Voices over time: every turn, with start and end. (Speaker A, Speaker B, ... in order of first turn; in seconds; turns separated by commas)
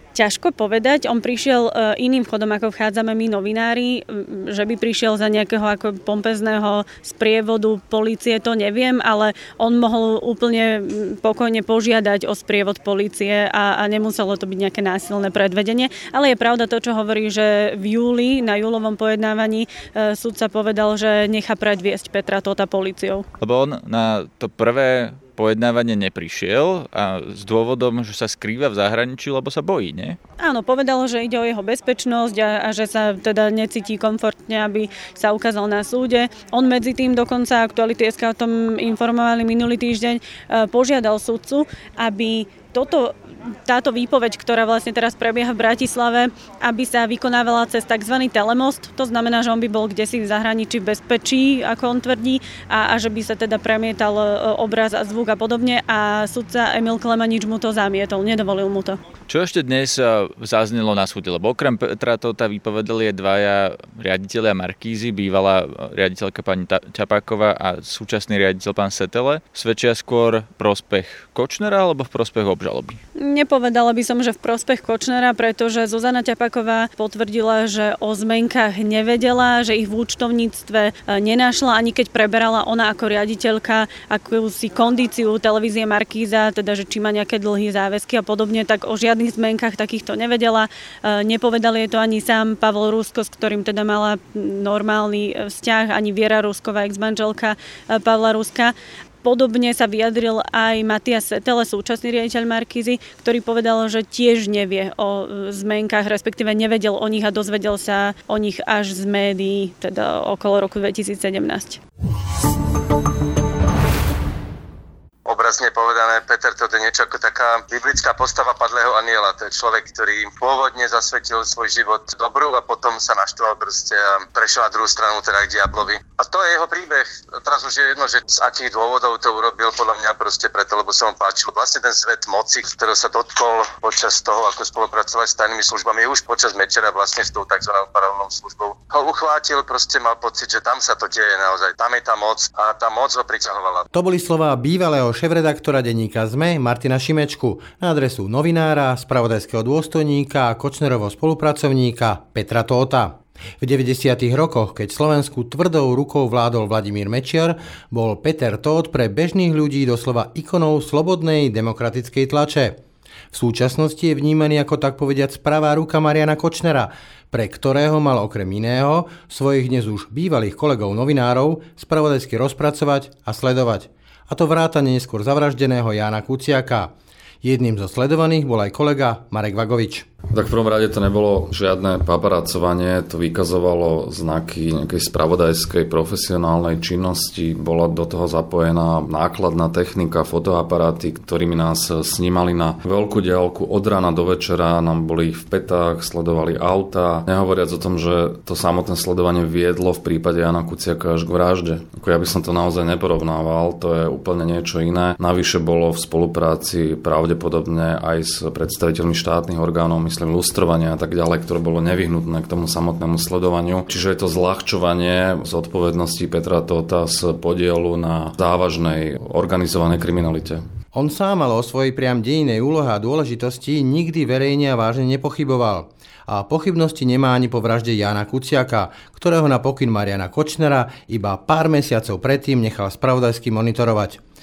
Speaker A: 0.1-23.2, Speaker B: 23.4-30.2, Speaker A: 30.4-59.0, Speaker B: 59.3-73.0, Speaker A: 73.2-111.8, Speaker C: 115.2-143.8, Speaker D: 143.9-162.8, Speaker D: 163.3-176.9, Speaker D: 177.4-180.1, Speaker E: 180.3-220.6, Speaker D: 220.9-234.2